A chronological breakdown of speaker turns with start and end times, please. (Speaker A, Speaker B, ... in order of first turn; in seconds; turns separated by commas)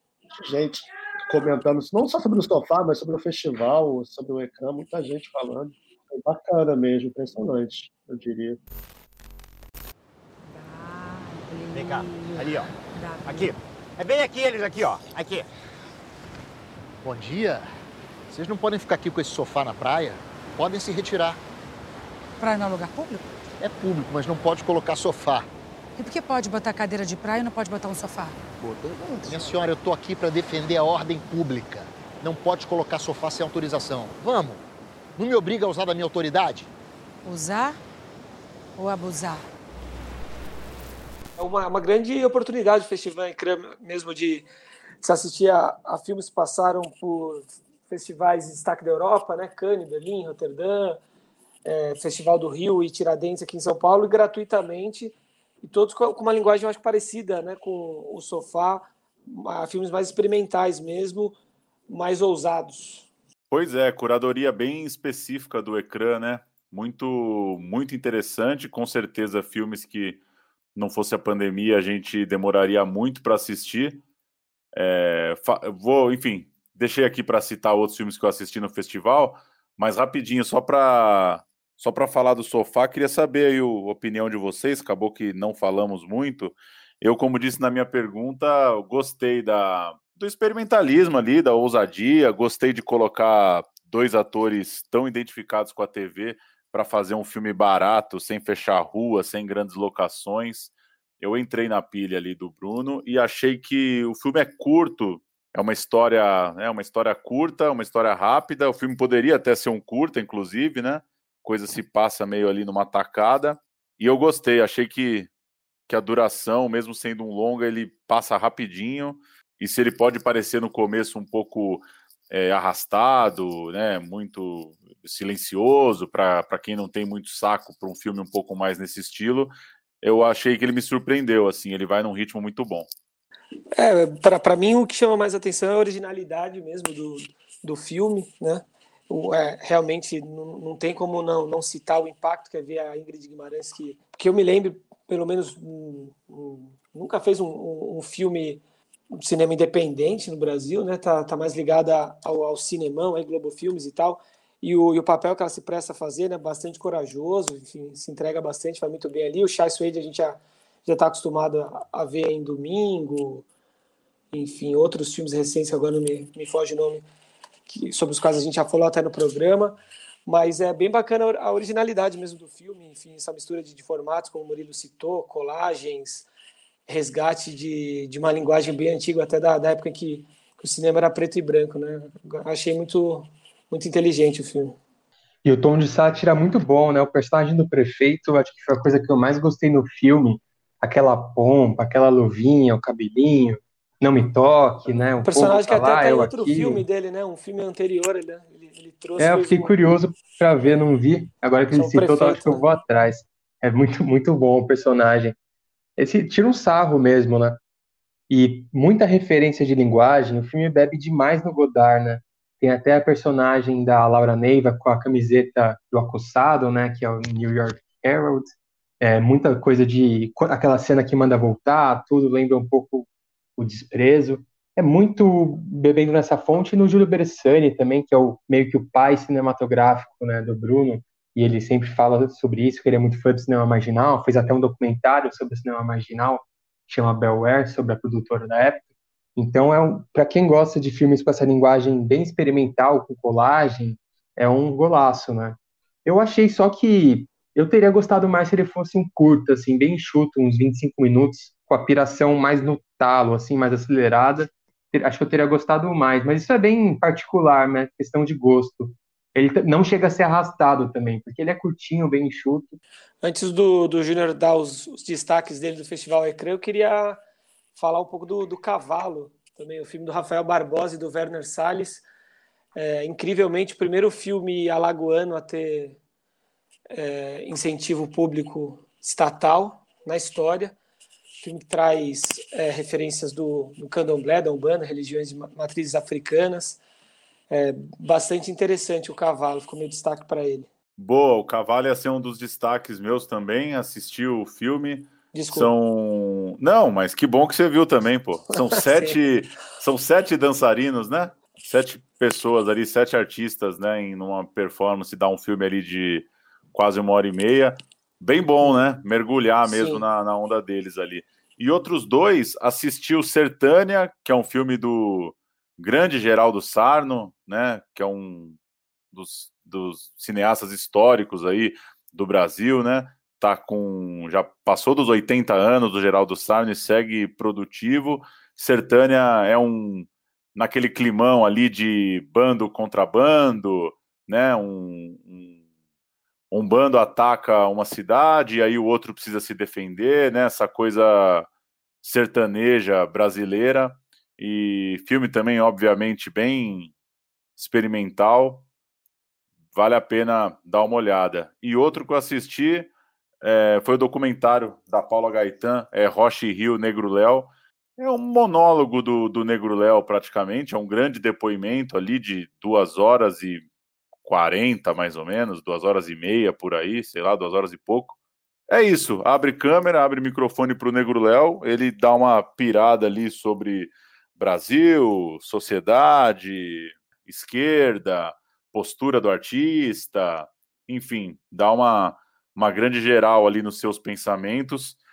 Speaker A: 0.3-8.6, Speaker B: 10.4-13.5, Speaker C: 11.7-12.7, Speaker C: 13.2-15.5, Speaker C: 17.0-17.7, Speaker C: 18.3-21.4, Speaker B: 22.4-23.2, Speaker C: 23.6-25.5, Speaker B: 26.0-28.4, Speaker C: 28.6-34.6, Speaker C: 35.2-36.7, Speaker B: 37.2-37.8, Speaker B: 38.8-39.4, Speaker D: 41.4-44.5, Speaker D: 45.0-51.0, Speaker D: 51.6-61.4, Speaker D: 61.9-63.1, Speaker E: 63.5-70.2, Speaker E: 70.7-74.0, Speaker E: 74.7-115.3, Speaker E: 115.9-132.9, Speaker D: 133.7-148.6, Speaker D: 149.1-163.4, Speaker D: 164.3-167.0, Speaker D: 167.7-176.3, Speaker D: 176.9-184.8, Speaker F: 185.4-196.9, Speaker D: 195.2-199.7, Speaker F: 199.2-205.4, Speaker D: 201.7-202.6, Speaker F: 206.0-207.6, Speaker F: 208.3-262.8, Speaker D: 263.2-267.2, Speaker D: 267.7-272.0, Speaker D: 272.7-276.0, Speaker D: 276.9-280.7, Speaker D: 281.4-286.8, Speaker D: 287.5-290.7, Speaker E: 291.0-318.6, Speaker D: 295.3-295.7, Speaker D: 298.6-299.2, Speaker D: 309.6-310.0, Speaker E: 319.1-335.6, Speaker E: 336.5-341.5, Speaker E: 342.0-346.9, Speaker E: 347.6-348.6, Speaker E: 349.7-352.9, Speaker E: 353.4-363.6, Speaker E: 364.2-368.1, Speaker E: 368.7-385.0